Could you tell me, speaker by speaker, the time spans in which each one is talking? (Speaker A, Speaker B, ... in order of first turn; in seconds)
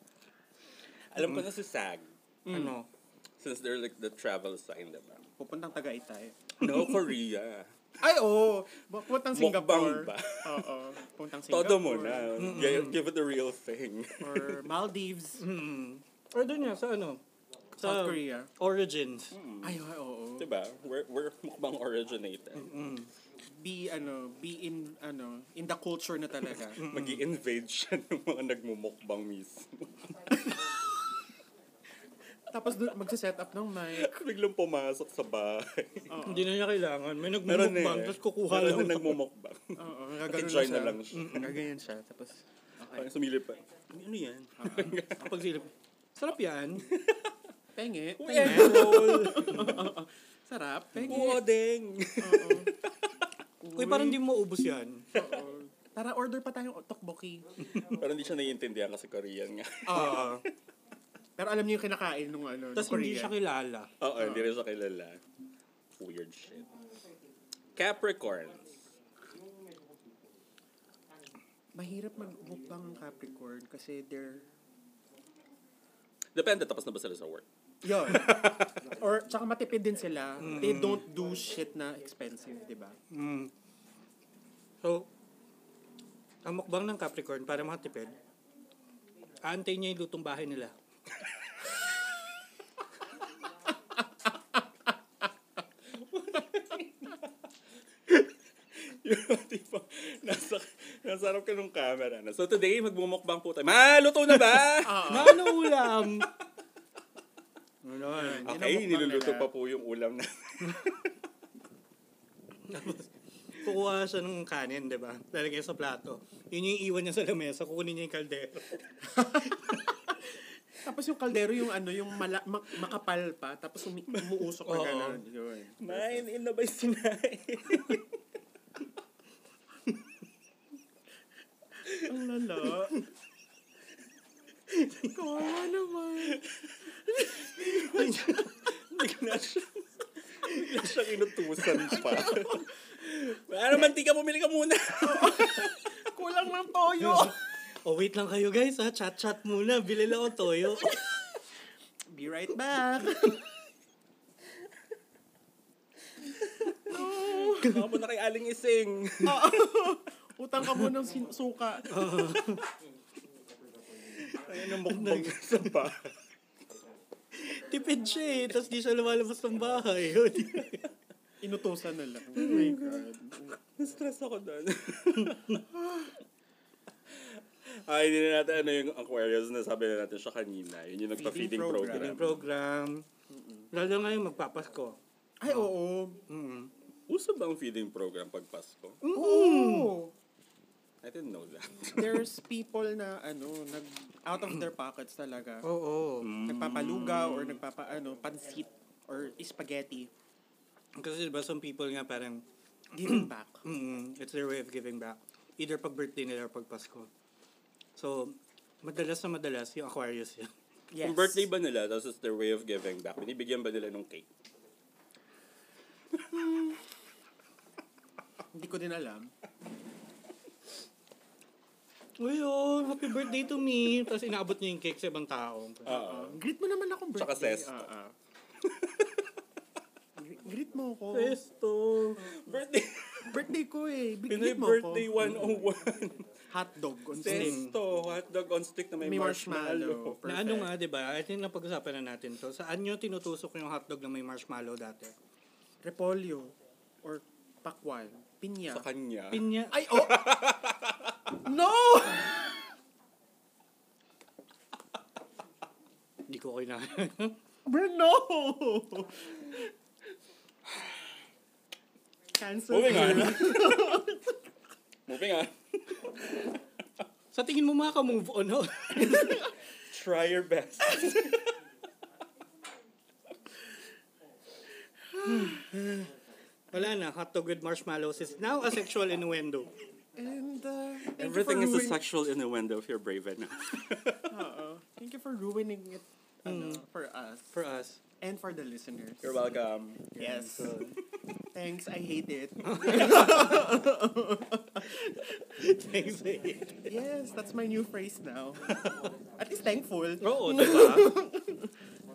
Speaker A: 1.1-2.1, 3.4-5.3, 6.6-7.7, 9.3-10.8, 11.5-14.7, 19.3-19.8, 20.4-22.7, 26.8-30.4, 33.9-36.1, 37.5-41.5, 42.9-45.2, 46.8-47.3, 48.2-49.8, 51.0-53.0, 57.8-60.4, 64.0-65.2, 66.0-66.7, 67.8-68.8, 76.3-77.5, 78.1-78.7, 96.0-97.2, 98.1-106.2, 108.5-111.1, 124.1-124.4, 125.8-128.1, 136.2-146.0, 156.4-159.9, 164.3-166.1, 172.4-173.1, 173.8-175.6, 177.7-182.4, 187.1-189.0, 191.0-192.2, 196.2-197.6, 211.0-214.3, 225.9-226.4, 227.1-227.8, 228.6-229.3, 232.2-233.5, 234.3-236.3, 237.2-240.2, 248.7-251.3, 262.7-264.2, 265.1-266.6, 269.0-271.6, 281.2-284.4, 289.2-290.1
Speaker B: 1.2-1.5, 2.5-2.9, 12.4-13.0, 15.4-17.2, 17.8-19.3, 22.6-23.1, 26.8-27.2, 36.2-39.2, 41.1-41.5, 45.1-46.9, 48.5-49.7, 53.7-55.1, 59.9-60.4, 62.8-63.9, 80.4-81.0, 83.1-83.5, 84.8-85.1, 86.4-88.2, 89.4-90.8, 105.1-106.3, 107.8-108.5, 112.7-113.1, 113.6-119.5, 124.7-125.2, 134.7-135.1, 137.9-138.5, 147.0-151.0, 161.9-162.6, 164.4-165.8, 167.3-170.8, 181.9-183.0, 183.7-185.7, 186.3-186.7, 189.0-189.9, 195.6-196.3, 201.0-202.4, 203.0-207.1, 208.0-210.5, 222.2-225.9, 231.1-232.3, 237.2-237.8, 240.3-245.1, 249.3-249.8, 256.3-257.4, 267.3-269.4, 275.2-276.1, 276.7-279.7, 286.5-286.8, 287.5-288.0, 290.2-291.0, 292.7-293.5, 295.3-296.9, 300.2-301.2
Speaker C: 2.5-2.8, 5.4-6.4, 8.0-12.4, 14.2-15.4, 17.8-18.5, 19.6-20.5, 23.6-26.8, 32.5-34.1, 36.1-36.5, 39.8-43.1, 44.6-45.0, 47.8-51.4, 52.2-52.7, 53.6-54.2, 55.1-57.5, 59.9-60.4, 61.4-63.4, 64.2-64.5, 71.7-74.5, 77.8-83.0, 104.8-105.5, 108.1-109.5, 120.8-126.2, 132.1-133.0, 135.0-136.4, 141.8-142.7, 145.0-147.4, 152.1-153.5, 156.9-157.7, 159.2-161.9, 171.4-173.6, 175.7-176.2, 181.2-182.2, 183.3-183.7, 185.4-186.2, 189.1-190.2, 192.0-195.7, 196.5-200.1, 202.9-203.6, 210.9-211.5, 216.3-216.8, 218.5-219.3, 225.9-228.1, 230.2-231.4, 233.3-235.4, 236.5-237.6, 239.0-240.7, 245.8-248.8, 249.7-250.4, 251.4-252.6, 257.7-259.7, 262.4-264.2, 275.1-275.6, 280.2-282.0, 284.3-287.6, 288.2-289.4, 290.1-290.8, 291.5-295.1, 296.9-298.6, 299.2-301.7